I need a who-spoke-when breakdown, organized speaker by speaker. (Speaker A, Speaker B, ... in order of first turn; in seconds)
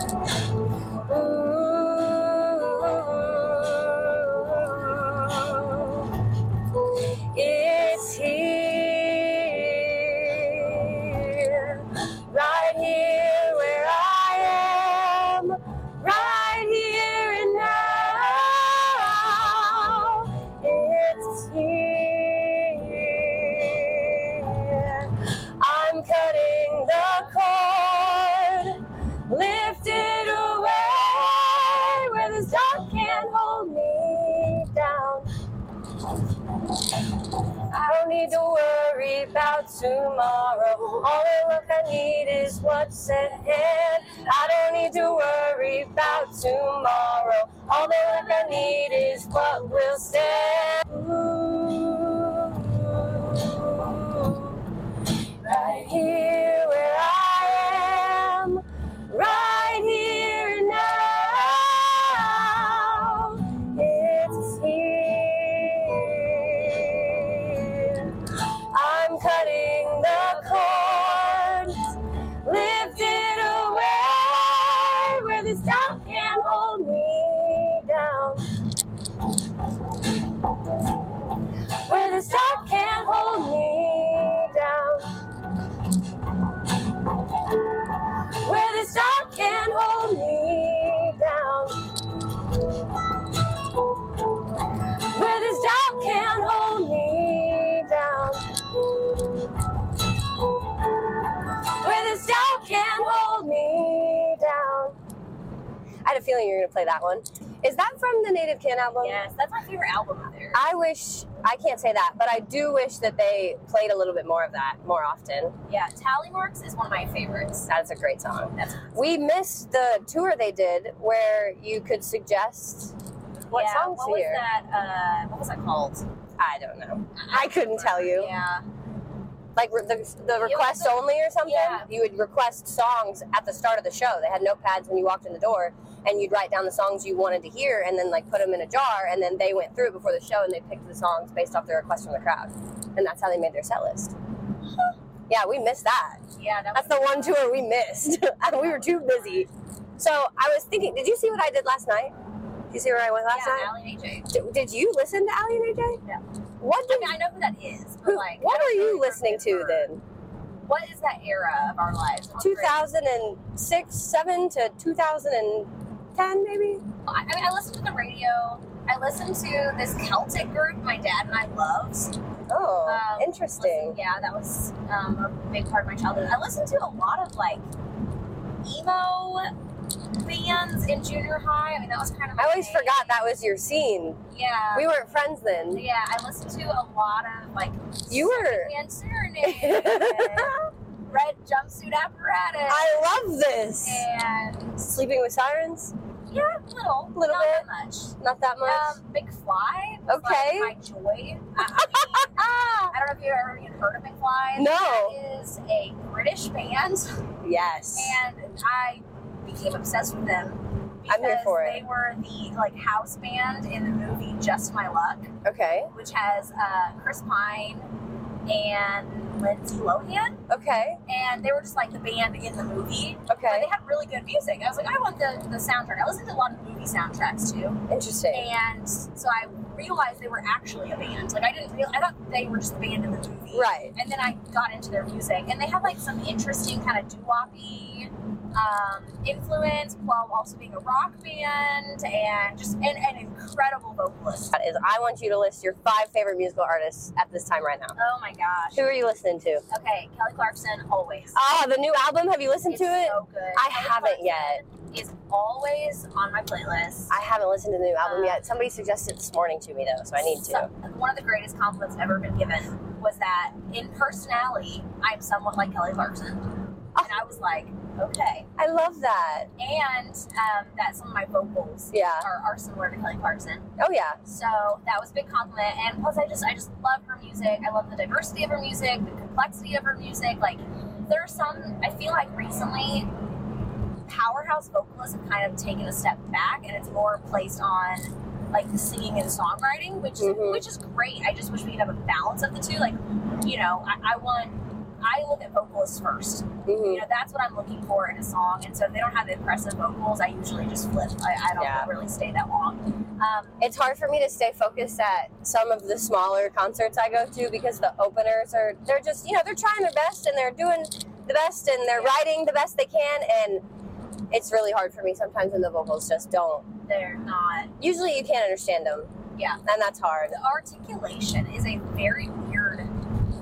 Speaker A: 0.9-35.3, 37.6-54.6, 55.3-78.5, 81.7-85.2, 87.9-92.0, 94.8-99.5, 101.4-105.0, 106.0-109.2, 110.5-115.5, 117.7-122.9, 123.5-124.4, 126.4-128.3, 129.6-144.1, 145.3-146.2, 146.7-152.1, 152.7-153.7, 154.3-156.0, 156.6-157.2, 158.0-160.0, 162.4-166.8, 172.5-174.0, 182.4-184.2, 184.7-185.8, 188.1-188.7, 189.4-190.7, 192.7-194.0, 194.8-195.9, 197.1-197.7, 198.2-199.0, 200.1-200.7, 201.7-202.9, 204.6-205.2, 207.4-208.2, 211.1-211.8, 215.4-215.9, 220.5-221.0, 223.3-223.7, 227.9-228.5, 233.5-233.9, 244.5-248.0, 248.7-249.6, 251.3-254.6, 257.1-260.7, 268.6-269.5, 271.9-272.3, 273.8-274.2, 290.2-290.7, 296.6-297.0, 301.6-301.9, 303.6-313.6, 314.3-316.7, 317.8-319.1, 319.6-320.4
Speaker B: 109.0-110.6, 115.7-117.7, 118.5-119.0, 123.5-126.0, 127.2-128.6, 130.4-131.9, 146.3-147.4, 148.7-149.3, 153.3-154.3, 156.9-159.9, 160.7-162.8, 167.0-172.2, 172.8-177.7, 178.6-179.5, 180.1-183.1, 184.3-184.9, 185.7-192.9, 193.8-194.8, 196.3-207.2, 207.9-215.3, 215.9-217.9, 218.5-220.4, 221.1-244.5, 247.9-248.8, 249.7-251.4, 252.7-257.1, 258.0-258.4, 260.4-268.5, 269.6-273.7, 274.2-283.1, 284.1-303.6, 311.9-312.2, 316.9-317.7, 319.4-319.6, 320.3-322.9